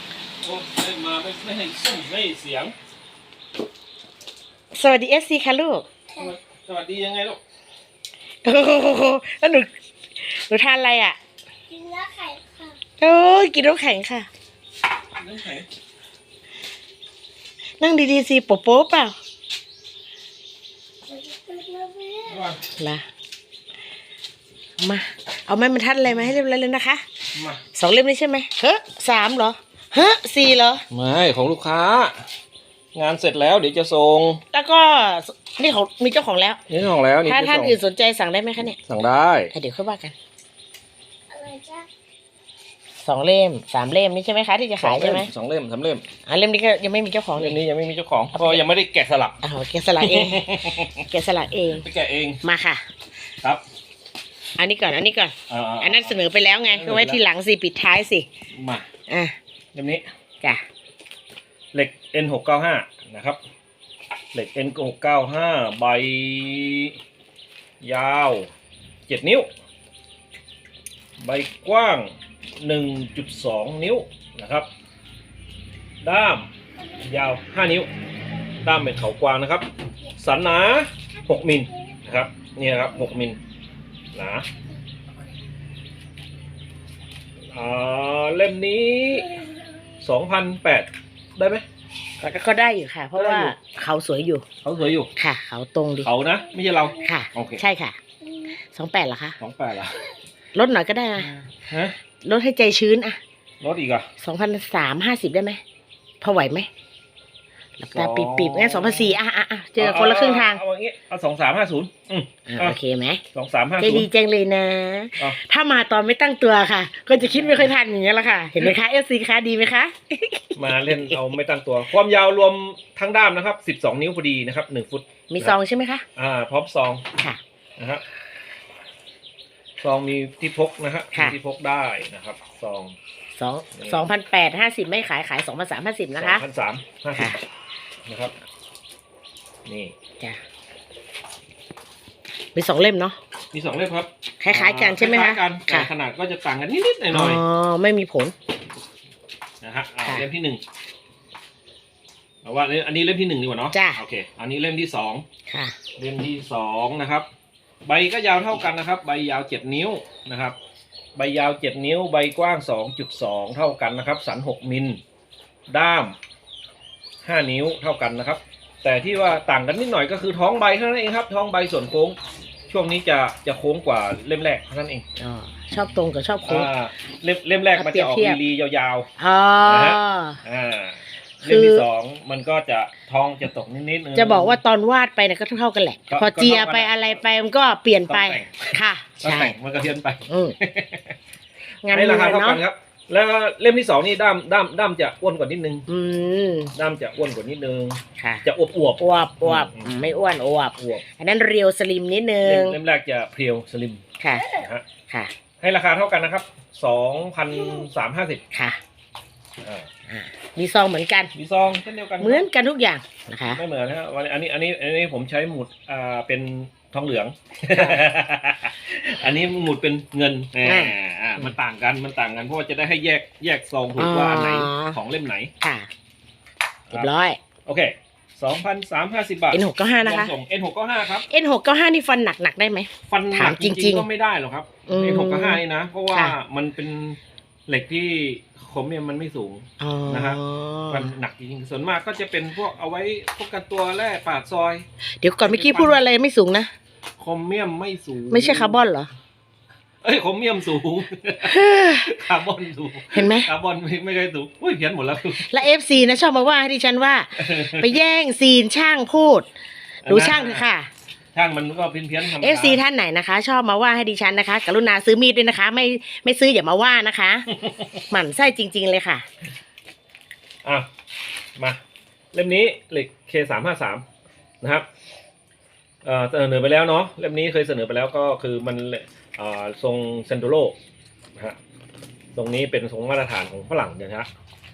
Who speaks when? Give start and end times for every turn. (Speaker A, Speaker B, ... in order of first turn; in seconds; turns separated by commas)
Speaker A: 0.4-2.8, Speaker B: 4.7-5.9, Speaker A: 6.2-7.4, Speaker B: 8.4-11.2, Speaker C: 11.7-12.8, Speaker B: 13.0-14.3, Speaker A: 15.2-15.7, Speaker B: 17.8-19.2, Speaker C: 21.1-22.4, Speaker A: 22.3-22.6, Speaker B: 22.7-23.1, Speaker B: 24.8-27.0, Speaker A: 27.3-27.6, Speaker B: 27.7-30.9, Speaker A: 30.9-32.3, Speaker A: 32.9-34.4, Speaker B: 34.5-36.6, Speaker A: 36.7-37.8, Speaker B: 37.2-38.8, Speaker A: 38.8-39.5, Speaker B: 39.5-40.1, Speaker C: 41.3-41.9, Speaker B: 43.0-45.3, Speaker A: 44.8-46.1, Speaker B: 46.3-47.6, Speaker A: 47.4-49.4, Speaker B: 48.3-48.6, Speaker B: 49.4-51.9, Speaker A: 50.0-51.1, Speaker A: 51.8-52.4, Speaker B: 52.4-52.8, Speaker B: 54.6-58.3, Speaker A: 55.5-56.2, Speaker A: 56.7-57.2, Speaker A: 58.5-58.9, Speaker B: 59.1-59.4, Speaker A: 59.7-60.1, Speaker A: 61.7-63.4, Speaker A: 64.3-67.0, Speaker A: 67.8-68.5, Speaker A: 69.1-69.5, Speaker A: 71.2-74.7, Speaker A: 76.0-77.9, Speaker A: 78.6-83.4, Speaker A: 84.1-84.5, Speaker A: 87.5-89.4, Speaker A: 90.0-91.6, Speaker B: 92.2-94.5, Speaker A: 93.2-93.5, Speaker A: 94.6-95.1, Speaker B: 95.2-96.1, Speaker A: 96.0-97.6, Speaker B: 97.0-98.0, Speaker B: 98.7-99.4, Speaker A: 99.4-100.1, Speaker B: 100.5-101.3, Speaker A: 101.5-102.0, Speaker B: 102.2-103.2, Speaker A: 103.6-104.1, Speaker B: 104.2-105.6, Speaker B: 106.2-106.7, Speaker B: 107.8-110.6, Speaker A: 107.9-109.2, Speaker A: 109.8-112.8, Speaker B: 112.5-113.2, Speaker A: 113.3-114.1, Speaker B: 113.8-120.9, Speaker A: 117.2-117.7, Speaker A: 120.6-125.5, Speaker B: 125.3-126.0, Speaker A: 126.2-127.1, Speaker A: 127.8-128.0, Speaker A: 129.8-133.0, Speaker B: 133.3-136.4, Speaker A: 133.8-134.1, Speaker A: 136.2-137.4, Speaker A: 138.1-138.3, Speaker A: 139.7-139.9, Speaker B: 142.6-143.2, Speaker A: 143.5-147.4, Speaker B: 144.4-145.9, Speaker B: 147.1-148.3, Speaker A: 149.6-150.6, Speaker A: 152.4-155.3, Speaker B: 153.7-154.0, Speaker B: 155.5-155.8, Speaker A: 156.0-157.3, Speaker A: 157.8-160.6, Speaker A: 161.2-165.0, Speaker A: 165.7-166.2, Speaker A: 167.2-175.1, Speaker B: 175.2-176.7, Speaker A: 176.5-179.1, Speaker B: 177.8-178.4, Speaker B: 179.2-180.4, Speaker A: 179.6-184.6, Speaker B: 181.4-181.9, Speaker B: 184.2-189.5, Speaker A: 186.1-187.2, Speaker A: 188.1-191.2, Speaker B: 190.3-190.6, Speaker B: 191.8-192.6, Speaker A: 191.9-195.9, Speaker B: 195.9-196.7, Speaker A: 196.7-200.2, Speaker B: 198.2-198.5, Speaker B: 199.0-202.8, Speaker A: 200.8-201.1, Speaker A: 202.4-204.8, Speaker B: 204.2-205.3, Speaker A: 205.6-208.4, Speaker B: 208.5-208.8, Speaker A: 209.6-209.9, Speaker B: 210.1-211.3, Speaker A: 211.3-212.5, Speaker B: 212.2-213.6, Speaker A: 213.5-225.5, Speaker B: 217.7-218.0, Speaker B: 220.6-221.5, Speaker B: 224.0-225.0, Speaker B: 225.6-225.9, Speaker B: 226.9-227.4, Speaker A: 227.7-231.3, Speaker B: 229.5-230.3, Speaker B: 231.2-234.1, Speaker A: 233.1-244.8, Speaker B: 234.9-236.3, Speaker B: 239.8-241.1, Speaker B: 245.2-246.7, Speaker A: 245.4-246.0, Speaker A: 247.2-248.8, Speaker B: 248.3-249.1, Speaker A: 250.0-255.7, Speaker B: 251.4-252.1, Speaker B: 253.1-253.5, Speaker B: 255.4-259.5, Speaker A: 257.4-258.0, Speaker A: 260.0-260.6, Speaker B: 260.1-260.9, Speaker A: 261.3-262.8, Speaker B: 262.3-267.5, Speaker A: 267.6-267.9, Speaker B: 268.1-269.3, Speaker A: 272.3-274.0, Speaker A: 274.6-274.9, Speaker A: 276.0-280.8, Speaker A: 282.3-284.3